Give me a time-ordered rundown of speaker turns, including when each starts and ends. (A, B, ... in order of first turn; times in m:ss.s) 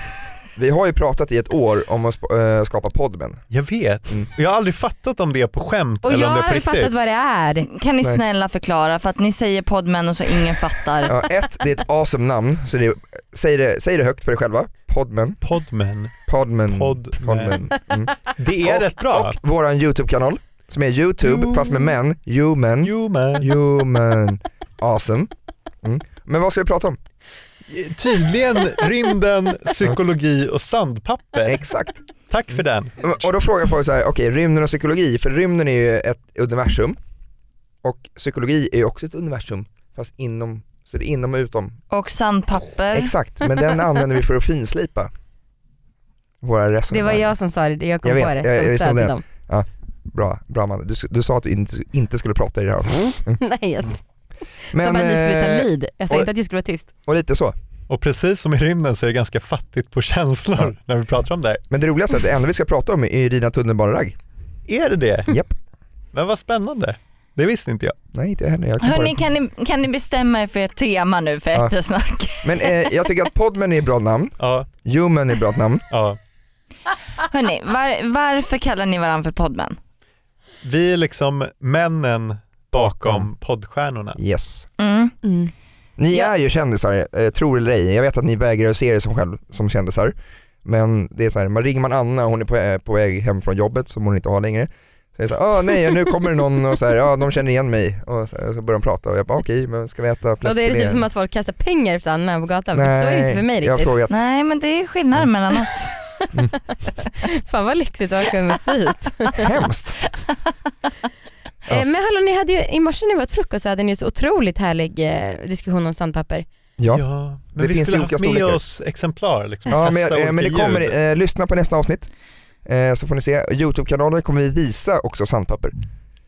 0:00.6-0:03.4 A
0:03.5-0:07.0 B
0:06.0-0:07.7 C
0:07.6-0:11.1 D
0:11.0-0:15.4 A
0:15.4-0:16.1 B
0:16.3-0:25.3 A
0:16.7-0:17.6 B
0:18.4-0:19.4 B
0:21.2-0:21.9 B
0:22.8-0:23.5 B
0:25.8-0:27.0 A
0:27.7-0:31.6 B
0:31.4-0:32.0 A
0:32.3-0:32.9 B
0:33.0-0:37.0 A
0:37.8-0:41.8 A
0:41.9-0:43.1 D
0:42.9-0:45.1 A
0:46.4-0:47.3 A
0:46.9-0:49.2 C
0:48.0-0:53.4 A
0:53.4-0:54.0 C
0:54.7-0:56.3 A
0:54.8-0:56.9 C
0:57.0-0:57.5 A
0:57.9-1:01.6 B
1:01.7-1:04.1 A
1:04.7-1:05.4 B
1:05.3-1:05.5 A
1:06.1-1:08.0 B
1:08.1-1:09.2 A
1:08.8-1:12.8 D
1:12.4-1:15.8 A
1:14.4-1:14.7 B
1:15.9-1:16.2 B
1:17.2-1:19.8 D
1:20.6-1:24.2 B
1:22.8-1:23.3 A
1:24.2-1:24.7 A
1:24.8-1:25.1 D
1:25.2-1:25.5 C
1:26.0-1:41.1 A
1:40.4-1:43.9 C
1:42.7-1:44.2 A
1:44.1-1:46.3 D
1:47.2-1:49.5 C
1:49.4-1:50.0 A
1:51.7-1:56.4 C
1:56.8-1:57.0 A
1:56.9-2:00.9 B
1:57.5-1:58.6 A
1:59.7-2:02.1 A
2:02.6-2:05.7 A